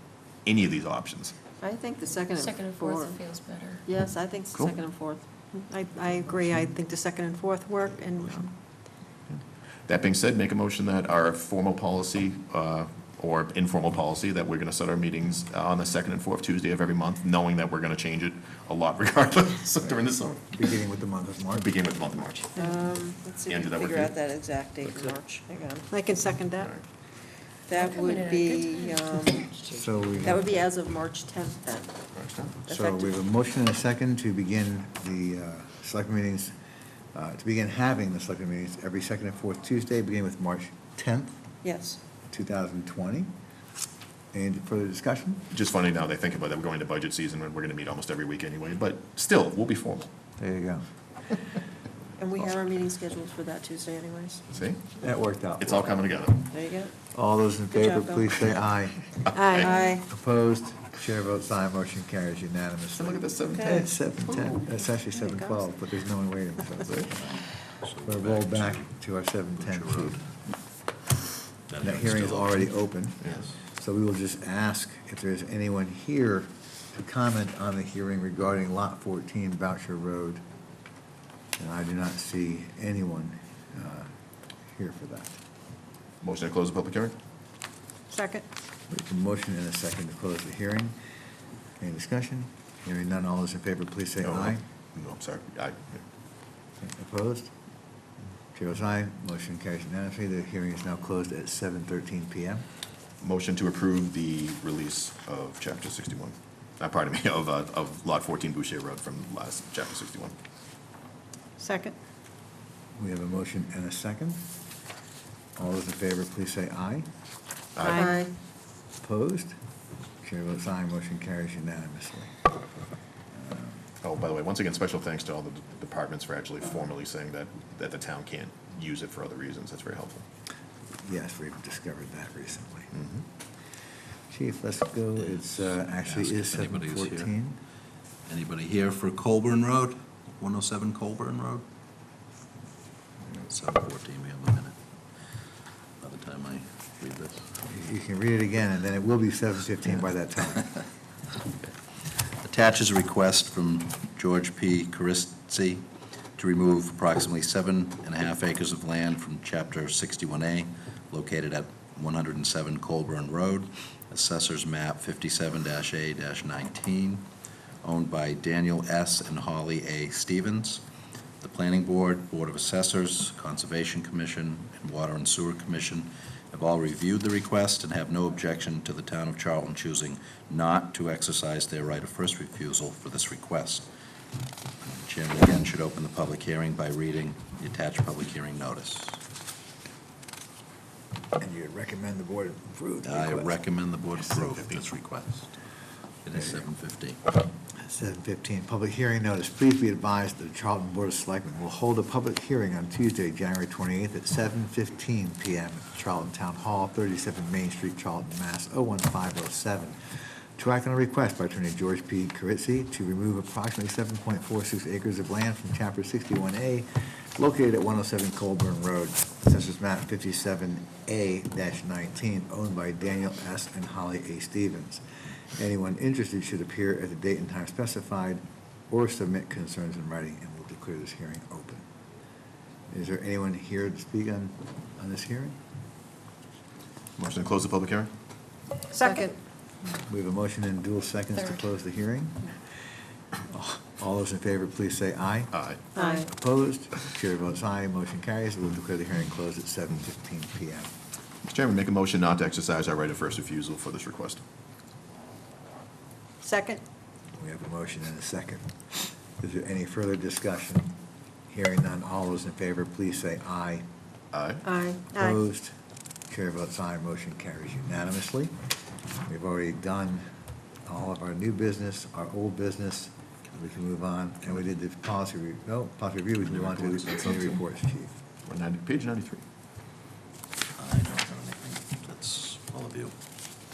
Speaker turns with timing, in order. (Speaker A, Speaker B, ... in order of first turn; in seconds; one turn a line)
Speaker A: 0.4-1.3
Speaker B: 1.6-3.2
Speaker C: 2.3-3.8
Speaker B: 3.8-5.6
Speaker D: 5.6-8.5
Speaker A: 9.3-20.6
Speaker E: 20.5-21.7
Speaker A: 21.5-22.5
Speaker B: 22.6-25.9
Speaker A: 23.5-24.1
Speaker D: 25.9-26.7
Speaker B: 27.7-29.5
Speaker C: 27.7-30.2
Speaker E: 29.7-30.5
Speaker B: 30.1-33.2
Speaker A: 32.1-32.5
Speaker E: 32.7-36.5
Speaker E: 37.1-41.4
Speaker B: 41.6-42.0
Speaker E: 42.3-43.3
Speaker E: 44.3-45.4
Speaker A: 45.5-50.1
Speaker E: 50.4-50.9
Speaker B: 52.2-54.4
Speaker A: 54.5-54.8
Speaker E: 55.0-55.9
Speaker A: 55.6-56.5
Speaker B: 56.5-56.9
Speaker E: 57.1-59.1
Speaker B: 57.7-58.4
Speaker A: 59.2-59.7
Speaker D: 59.3-60.0
Speaker B: 59.6-60.0
Speaker E: 60.0-67.2
Speaker A: 62.9-63.9
Speaker B: 63.5-63.9
Speaker A: 66.8-67.1
Speaker F: 67.1-68.9
Speaker E: 68.0-70.2
Speaker F: 69.6-70.2
Speaker F: 71.7-72.7
Speaker E: 71.8-80.4
Speaker F: 73.2-73.5
Speaker E: 81.6-84.1
Speaker E: 84.7-85.3
Speaker A: 86.2-87.2
Speaker D: 88.1-88.4
Speaker E: 88.9-90.9
Speaker E: 91.8-94.6
Speaker A: 94.2-96.0
Speaker E: 96.8-97.5
Speaker E: 98.5-102.6
Speaker A: 103.2-110.3
Speaker D: 111.6-111.9
Speaker E: 113.0-114.4
Speaker E: 115.5-117.1
Speaker A: 117.8-118.1
Speaker D: 117.8-118.2
Speaker B: 117.9-118.3
Speaker E: 119.0-119.5
Speaker E: 120.2-122.3
Speaker E: 123.3-123.8
Speaker A: 124.0-130.2
Speaker E: 131.0-132.9
Speaker A: 132.9-133.2
Speaker E: 134.3-137.6
Speaker F: 135.2-137.3
Speaker F: 138.3-141.6
Speaker F: 143.4-144.8
Speaker F: 146.0-147.5
Speaker E: 147.6-150.7
Speaker F: 152.4-155.8
Speaker F: 156.3-167.3
Speaker F: 167.8-170.8
Speaker F: 171.4-183.9
Speaker F: 184.8-189.2
Speaker E: 191.4-193.5
Speaker F: 193.0-195.5
Speaker F: 196.2-197.2
Speaker E: 197.8-210.0
Speaker E: 210.6-225.0
Speaker E: 225.6-231.8
Speaker E: 232.9-235.6
Speaker A: 237.2-238.1
Speaker D: 238.9-239.3
Speaker E: 240.1-242.5
Speaker E: 243.5-250.9
Speaker A: 245.5-245.8
Speaker D: 246.0-246.2
Speaker A: 251.4-254.4
Speaker D: 256.4-256.8
Speaker E: 257.4-258.7
Speaker E: 259.4-260.9
Speaker E: 261.5-263.8
Speaker A: 264.3-264.6
Speaker D: 264.6-265.4
Speaker E: 265.1-265.7
Speaker E: 266.3-268.5
Speaker E: 269.2-270.2
Speaker E: 270.9-278.1
Speaker F: 276.4-277.4
Speaker A: 278.4-279.4
Speaker F: 280.8-283.1